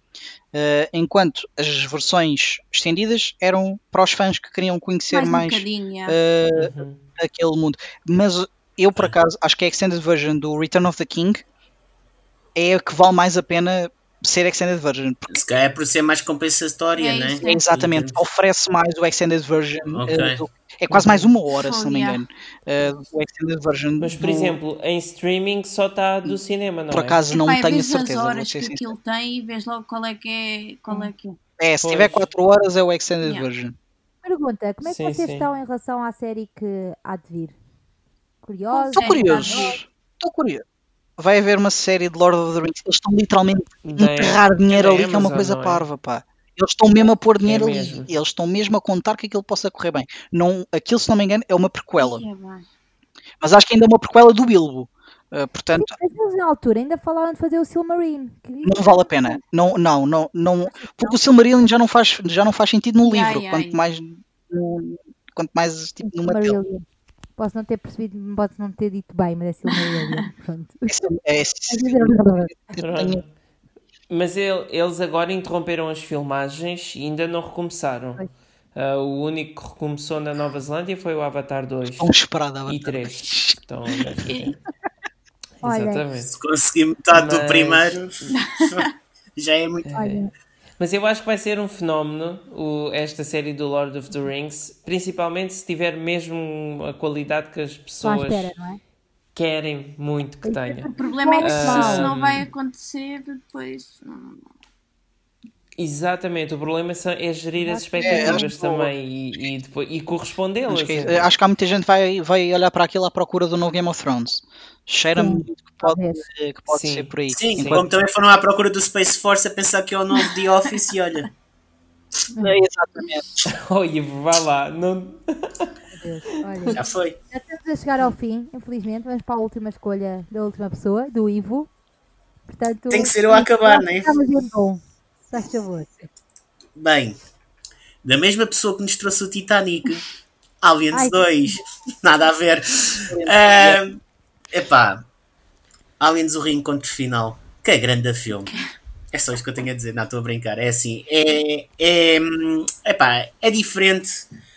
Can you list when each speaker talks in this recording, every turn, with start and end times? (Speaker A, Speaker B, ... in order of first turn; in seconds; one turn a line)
Speaker A: 0.5-11.4
Speaker B: 5.1-6.2
Speaker C: 6.5-7.0
Speaker A: 12.6-15.4
Speaker D: 15.3-18.2
Speaker B: 17.0-17.6
Speaker A: 17.4-24.6
Speaker D: 19.9-20.4
Speaker C: 20.9-21.3
Speaker B: 21.5-22.2
Speaker C: 24.0-27.2
Speaker A: 26.9-28.9
Speaker B: 27.3-31.4
Speaker A: 31.6-33.8
Speaker C: 31.8-32.3
Speaker E: 34.2-37.6
Speaker C: 34.8-35.5
Speaker E: 38.4-39.8
Speaker B: 38.7-39.8
Speaker A: 38.9-40.6
Speaker A: 41.2-52.2
Speaker C: 43.9-45.9
Speaker C: 47.4-48.1
Speaker B: 52.0-52.6
Speaker A: 53.4-55.9
Speaker E: 55.7-59.4
Speaker A: 58.6-66.6
Speaker E: 60.7-61.1
Speaker B: 63.0-63.8
Speaker E: 66.0-66.8
Speaker E: 67.4-70.9
Speaker B: 69.7-70.3
Speaker A: 70.9-73.2
Speaker E: 71.7-72.8
Speaker C: 72.8-73.3
Speaker C: 74.1-78.2
Speaker C: 78.7-82.1
Speaker A: 82.0-84.1
Speaker C: 82.7-84.6
Speaker B: 84.3-84.6
Speaker C: 85.6-86.3
Speaker E: 85.6-86.0
Speaker D: 86.3-89.9
Speaker C: 87.1-88.3
Speaker B: 88.3-88.9
Speaker C: 89.8-90.2
Speaker E: 89.9-90.3
Speaker C: 90.8-98.5
Speaker E: 98.0-98.8
Speaker C: 99.3-100.9
Speaker E: 100.4-102.1
Speaker B: 100.9-104.4
Speaker C: 101.4-102.4
Speaker C: 105.8-111.2
Speaker E: 107.6-108.5
Speaker A: 108.0-108.9
Speaker A: 110.7-117.8
Speaker E: 115.1-116.2
Speaker C: 116.7-117.8
Speaker D: 117.3-121.3
Speaker E: 122.3-122.6
Speaker A: 122.4-123.4
Speaker C: 123.5-125.7
Speaker E: 125.9-126.8
Speaker D: 126.8-127.2
Speaker E: 127.3-131.7
Speaker E: 132.5-136.1
Speaker D: 132.9-134.1
Speaker D: 136.8-137.2
Speaker D: 138.0-140.0
Speaker D: 140.6-144.0
Speaker E: 140.9-141.3
Speaker A: 143.1-143.8
Speaker D: 144.5-145.1
Speaker D: 146.0-148.6
Speaker B: 148.4-148.7
Speaker D: 149.1-154.2